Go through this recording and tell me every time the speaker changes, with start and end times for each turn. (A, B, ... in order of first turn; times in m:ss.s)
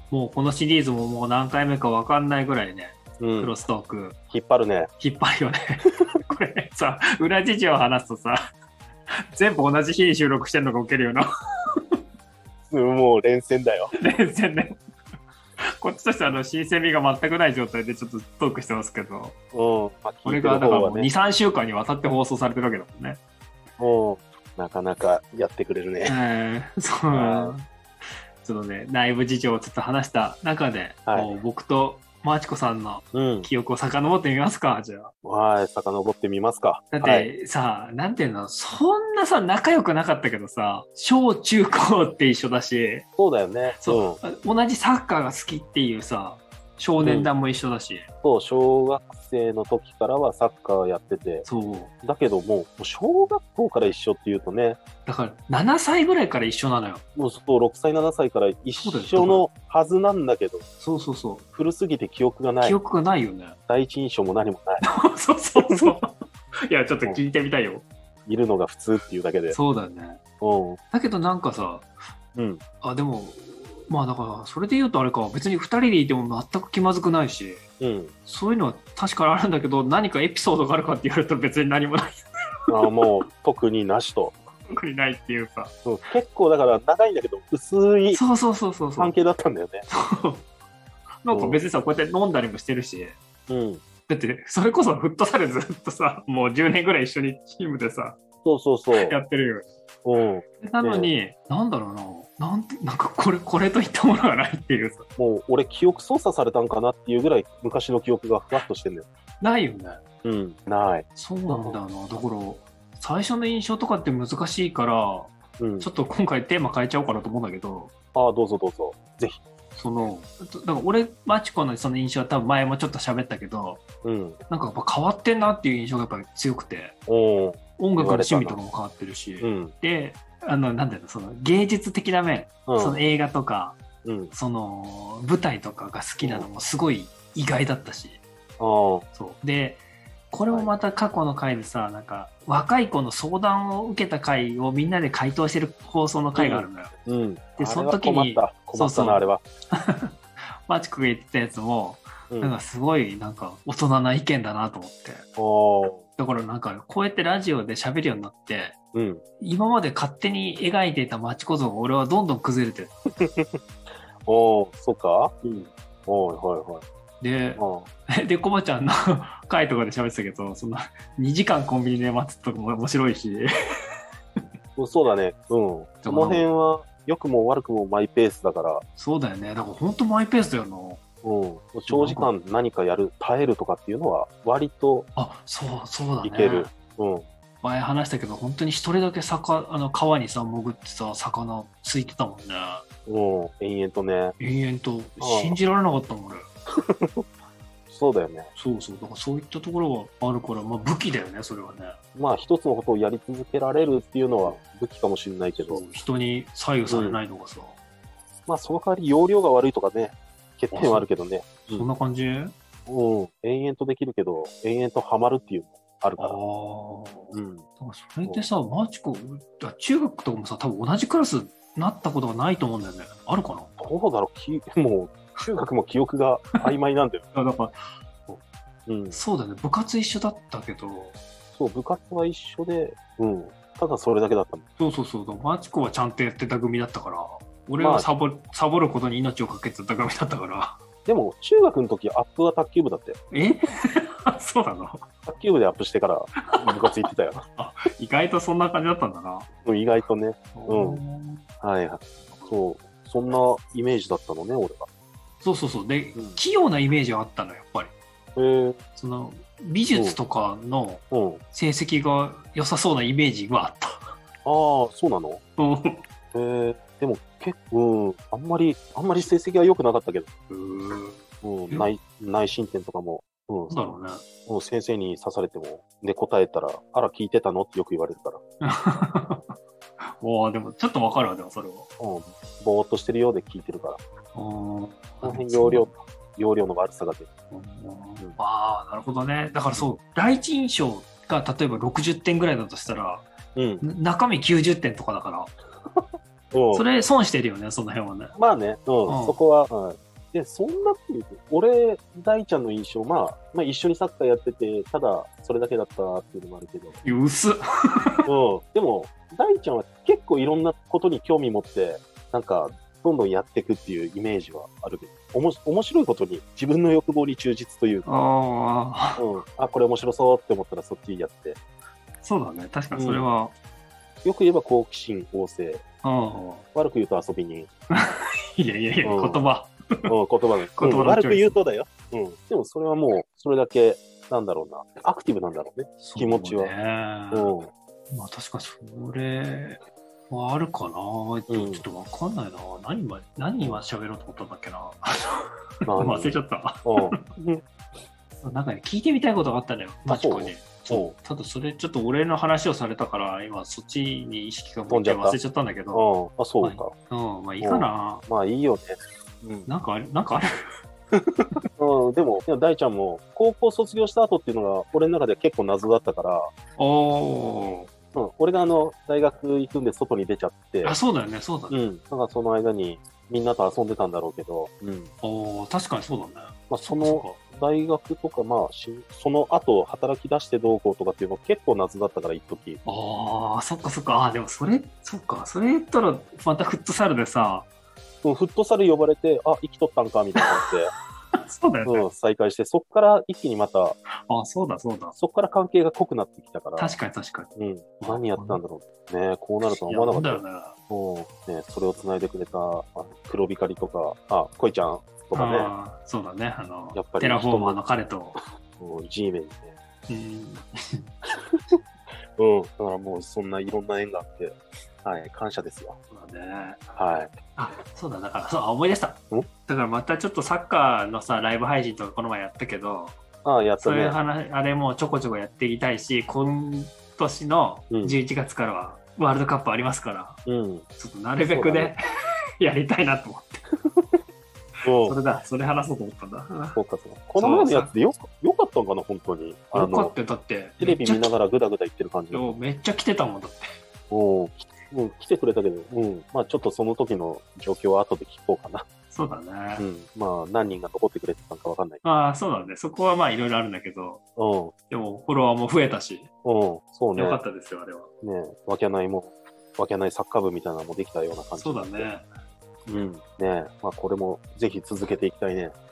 0:00.1-0:04.2 A
0:03.2-0:03.5 B
0:04.3-0:04.9 B
0:05.0-0:08.4 A
0:09.3-0:11.2 A
0:12.6-0:13.9 B
0:13.9-0:14.8 A
0:15.8-0:19.3 A
0:19.5-0:21.2 B
0:20.2-0:23.2 A
0:23.8-0:26.2 B
0:26.0-0:27.6 A
0:27.1-0:27.6 B
0:28.4-0:35.1 A
0:31.1-0:31.3 B
0:33.1-0:33.5 B
0:35.2-0:37.3 B
0:36.9-0:43.0 A
0:43.2-0:44.2 B
0:43.7-0:48.0 A
0:47.0-0:47.3 B
0:48.2-0:51.4 B
0:51.4-0:51.9 A
0:52.0-0:54.8 B
0:55.0-0:57.0 A
0:57.2-1:00.6 B
0:58.8-0:59.4 A
1:00.8-1:01.4 A
1:01.5-1:02.8 B
1:02.6-1:03.6 A
1:03.7-1:04.8 B
1:04.8-1:07.9 A
1:05.6-1:05.9 B
1:08.2-1:09.6 B
1:09.5-1:10.2 A
1:10.4-1:10.8 B
1:10.9-1:11.9 A
1:12.3-1:12.6 B
1:12.8-1:17.6 A
1:17.8-1:18.1 B
1:18.2-1:22.2 A
1:22.7-1:24.4 B
1:24.7-1:25.7 A
1:25.8-1:28.2 B
1:28.1-1:29.2 A
1:29.0-1:29.8 B
1:30.1-1:30.4 A
1:31.2-1:33.2 A
1:31.3-1:31.6 B
1:33.5-1:33.8 B
1:34.1-1:38.2 A
1:38.4-1:39.2 B
1:38.9-1:39.7 A
1:40.0-1:41.1 B
1:40.6-1:45.1 A
1:45.2-1:49.1 B
1:49.4-1:50.0 A
1:50.2-1:51.8 B
1:51.2-1:57.9 A
1:55.6-1:55.9 B
1:58.1-1:59.4 B
1:59.7-2:03.8 A
2:04.0-2:04.4 B
2:04.5-2:07.0 A
2:07.1-2:08.6 B
2:07.8-2:13.8 A
2:09.4-2:09.7 B
2:12.7-2:13.0 B
2:14.0-2:14.3 B
2:14.3-2:18.2 A
2:16.2-2:16.5 B
2:18.6-2:19.0 B
2:19.1-2:26.9 A
2:26.3-2:29.4 B
2:27.6-2:30.1 A
2:30.6-2:35.2 A
2:32.3-2:32.6 B
2:35.4-2:36.0 B
2:36.2-2:38.8 A
2:38.9-2:39.2 B
2:39.4-2:42.9 A
2:43.2-2:43.6 B
2:44.2-2:45.3 B
2:45.4-2:45.7 A
2:46.1-2:46.8 B
2:47.2-2:53.5 A
2:47.6-2:47.9 B
2:54.8-2:58.8 B
2:56.0-2:56.4 A
2:59.0-3:01.0 A
3:01.2-3:05.1 B
3:01.9-3:02.3 A
3:05.2-3:06.7 A
3:06.2-3:07.2 B
3:07.6-3:12.8 A
3:13.0-3:14.4 B
3:14.4-3:16.4 A
3:15.2-3:15.6 B
3:16.8-3:17.2 B
3:17.9-3:18.5 B
3:18.5-3:22.0 A
3:22.1-3:25.8 B
3:25.6-3:27.8 A
3:26.9-3:27.2 B
3:28.5-3:31.9 B
3:30.7-3:31.1 A
3:31.7-3:32.5 A
3:32.9-3:36.4 B
3:36.2-3:43.7 A
3:37.3-3:37.6 B
3:43.8-3:47.3 B
3:47.3-3:48.4 A
3:48.9-3:49.2 B
3:49.1-3:51.2 A
3:51.5-3:54.6 B
3:54.8-4:00.8 A
3:57.8-3:58.1 B
4:01.0-4:03.2 B
4:03.3-4:05.0 A
4:05.3-4:07.4 B
4:07.6-4:09.5 A
4:09.6-4:11.0 B
4:10.5-4:11.4 A
4:11.6-4:14.9 B
4:12.2-4:12.6 A
4:15.4-4:17.9 A
4:18.4-4:18.8 B
4:19.0-4:24.2 A
4:21.1-4:21.4 B
4:24.4-4:25.4 B
4:25.6-4:26.0 A
4:26.3-4:30.3 B
4:30.5-4:31.9 A
4:31.4-4:33.9 B
4:33.7-4:34.2 A
4:34.5-4:38.4 B
4:38.6-4:39.5 A
4:40.2-4:41.9 A
4:42.0-4:44.0 B
4:44.3-4:45.9 A
4:45.2-4:47.3 B
4:47.5-4:53.2 A
4:53.6-4:53.8 B
4:53.8-4:55.5 A
4:56.5-4:56.8 B
4:56.7-4:58.3 A
4:58.3-5:07.0 B
4:59.0-4:59.4 A
5:07.0-5:08.3 A
5:08.2-5:18.1 B
5:18.0-5:19.2 A
5:19.2-5:21.6 B
5:22.2-5:23.5 A
5:22.9-5:23.3 B
5:24.2-5:25.8 B
5:26.0-5:26.6 A
5:26.7-5:27.7 B
5:28.6-5:30.1 A
5:29.0-5:29.4 B
5:30.1-5:36.7 B
5:30.7-5:31.6 A
5:36.0-5:37.5 A
5:37.3-5:37.7 B
5:38.1-5:39.8 A
5:40.3-5:45.4 A
5:41.5-5:41.8 B
5:45.9-5:47.6 B
5:46.0-5:47.2 A
5:48.4-5:56.0 A
5:50.1-5:51.1 B
5:54.9-5:55.4 B
5:55.9-5:56.9 B
5:56.6-5:58.2 A
5:57.6-5:59.7 B
5:59.7-6:00.4 A
6:01.8-6:06.5 B
6:06.8-6:07.9 A
6:08.1-6:11.0 B
6:10.8-6:11.8 A
6:11.7-6:15.1 B
6:15.2-6:17.4 A
6:16.7-6:22.8 B
6:22.8-6:27.7 A
6:28.2-6:30.9 B
6:30.4-6:30.7 A
6:31.3-6:32.1 A
6:31.8-6:34.0 B
6:34.2-6:35.2 A
6:35.2-6:37.0 B
6:36.8-6:38.6 A
6:37.6-6:45.7 B
6:39.7-6:40.8 A
6:45.3-6:48.4 A
6:46.9-6:47.8 B
6:48.8-6:49.7 B
6:50.1-6:51.0 A
6:51.5-6:51.8 B
6:52.4-6:56.0 B
6:56.1-6:56.8 A
6:56.9-6:57.3 B
6:57.6-7:03.2 A
7:03.4-7:04.2 B
7:03.8-7:10.4 A
7:07.9-7:08.2 B
7:10.4-7:10.8 B
7:11.0-7:12.0 A
7:11.5-7:11.9 B
7:12.6-7:13.6 A
7:14.8-7:15.2 B
7:14.8-7:16.8 A
7:16.7-7:20.1 B
7:17.4-7:17.9 A
7:19.7-7:21.3 A
7:20.8-7:22.6 B
7:22.3-7:23.7 A
7:24.1-7:28.8 B
7:29.1-7:29.8 A
7:29.8-7:32.0 B
7:32.0-7:34.2 A
7:34.4-7:34.7 B
7:34.9-7:36.3 A
7:36.4-7:37.4 B
7:37.1-7:38.1 A
7:38.2-7:42.1 B
7:41.6-7:42.3 A
7:42.9-7:45.7 B